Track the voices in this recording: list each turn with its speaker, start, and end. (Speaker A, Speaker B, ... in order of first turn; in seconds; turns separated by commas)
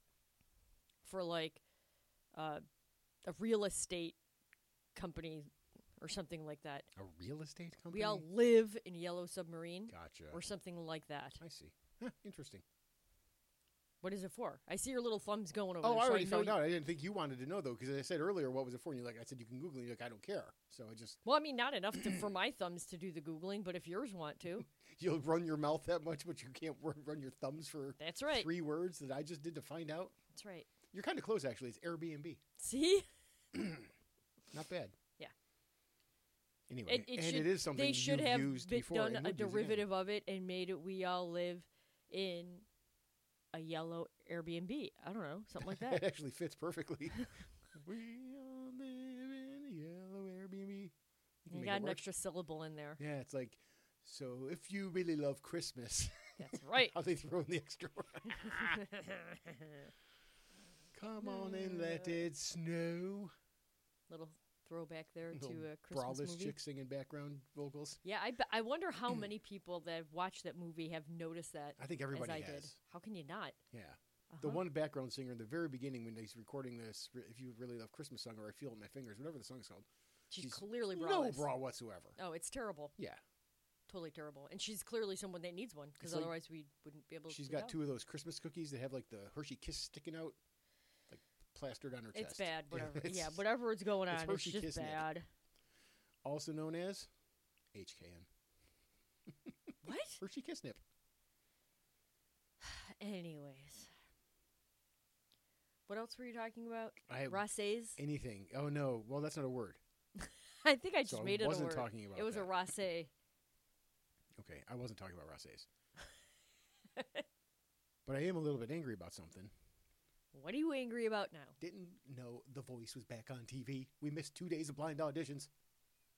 Speaker A: 1.0-1.6, Speaker A: 2.3-2.6, Speaker A: 3.2-4.2, Speaker A: 4.9-6.9, Speaker B: 7.0-8.2, Speaker A: 7.9-11.4, Speaker B: 9.9-10.4, Speaker B: 11.4-12.6, Speaker A: 14.0-16.6, Speaker B: 15.8-21.2, Speaker A: 21.2-24.7, Speaker B: 21.9-22.2, Speaker B: 24.7-30.1, Speaker A: 28.0-28.5, Speaker A: 30.3-30.7, Speaker B: 30.9-32.4, Speaker A: 32.6-33.0, Speaker B: 33.5-33.9, Speaker B: 34.5-35.0, Speaker B: 36.7-39.9, Speaker A: 36.9-42.6, Speaker A: 43.5-46.0, Speaker B: 45.6-50.9, Speaker B: 51.4-52.0, Speaker A: 51.5-53.0, Speaker B: 53.0-58.8, Speaker A: 56.4-56.9, Speaker A: 58.3-59.8, Speaker B: 60.9-63.3, Speaker A: 61.2-62.2, Speaker A: 64.1-66.6, Speaker B: 65.3-68.0, Speaker A: 68.0-73.6, Speaker B: 71.8-72.7, Speaker B: 73.7-82.2, Speaker A: 74.3-74.6, Speaker A: 80.3-81.5, Speaker A: 82.2-82.9, Speaker A: 83.9-87.7, Speaker B: 86.0-86.3, Speaker B: 87.3-90.4, Speaker B: 91.1-93.4, Speaker A: 92.1-95.2, Speaker B: 94.1-95.0, Speaker B: 96.2-97.1, Speaker B: 97.7-98.3, Speaker B: 99.5-100.8, Speaker A: 99.8-100.2, Speaker A: 102.6-103.9, Speaker A: 105.9-108.0, Speaker B: 107.1-107.4, Speaker B: 108.0-109.8, Speaker A: 110.2-113.1, Speaker B: 111.0-112.5, Speaker B: 114.4-115.7, Speaker A: 117.0-117.2, Speaker B: 118.0-119.5, Speaker A: 120.3-121.5, Speaker B: 121.6-125.5